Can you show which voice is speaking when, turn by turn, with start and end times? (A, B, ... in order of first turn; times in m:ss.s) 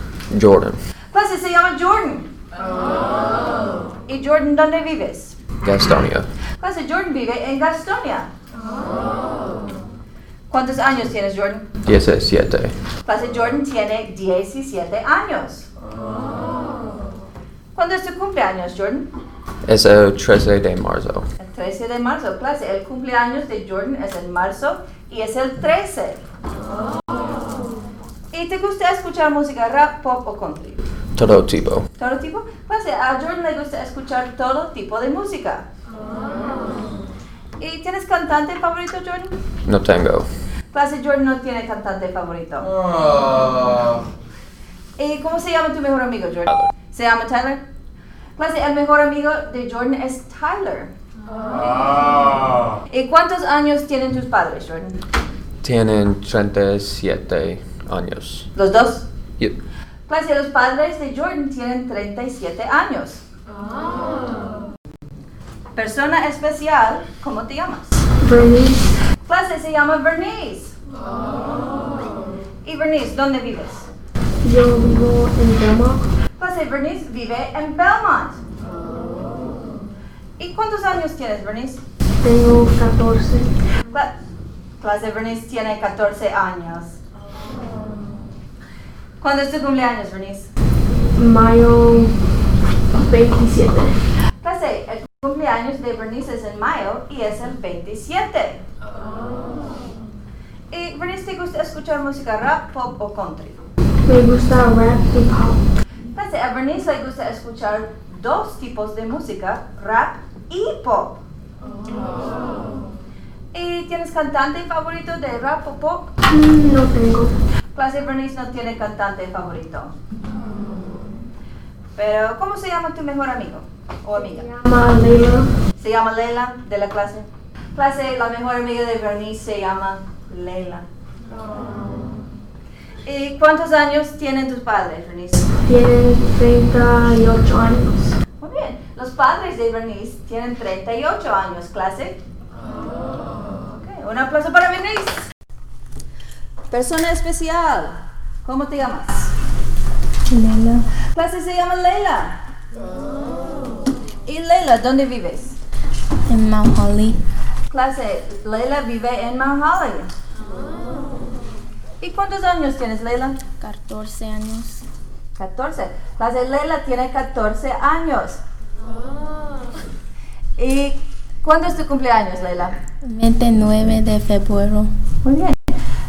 0:00.3-0:00.8 A
0:01.1-0:02.3 B
0:04.1-0:05.4 B
0:05.6-0:06.3 A
0:06.6-0:08.3 B
0:10.5-0:11.7 B
0:11.8-0:12.7 A
0:13.0-0:15.7 B
0:17.7-0:19.1 B
0:19.6-0:21.3 A
0:21.4-0:26.2 B
0:28.3-0:30.8 B
0:31.1-0:31.8 A
0:32.0-0:35.6 B
0:37.6-0:39.4 B
0:39.6-0:40.3 A
0:40.7-0:42.7 B
0:45.0-0:47.6 B
0:48.4-0:50.9 B
0:51.6-0:52.0 B
0:52.9-0:55.0 B
0:55.6-0:58.5 A
0:58.5-0:59.0 B
1:00.1-1:03.2 B
1:05.7-1:08.0 B
1:08.2-1:08.8 C
1:09.2-1:10.7 B
1:12.6-1:13.9 B
1:14.4-1:16.0 C
1:16.4-1:18.4 B
1:20.4-1:21.8 B
1:22.2-1:23.5 C
1:24.8-1:27.0 B
1:29.2-1:30.5 B
1:31.2-1:32.1 C
1:33.0-1:33.9 C
1:34.4-1:38.6 B
1:40.7-1:43.6 B
1:44.1-1:45.6 C
1:46.1-1:51.2 B
1:53.5-1:56.1 B
1:56.3-1:57.3 C
1:57.7-1:59.9 B
2:02.0-2:04.5 B
2:04.6-2:05.5 C
2:05.8-2:10.8 B
2:13.0-2:15.5 B
2:15.7-2:18.1 C
2:18.4-2:22.2 B
2:23.7-2:25.2 B
2:26.7-2:29.3 B
2:30.3-2:30.8 D
2:31.1-2:32.4 B
2:34.2-2:35.6 B
2:36.3-2:37.2 D
2:37.7-2:40.1 B
2:42.0-2:43.4 B
2:43.6-2:44.8 D
2:45.4-2:48.4 B
2:50.6-2:52.8 B
2:53.0-2:54.9 D
2:55.2-2:55.6 B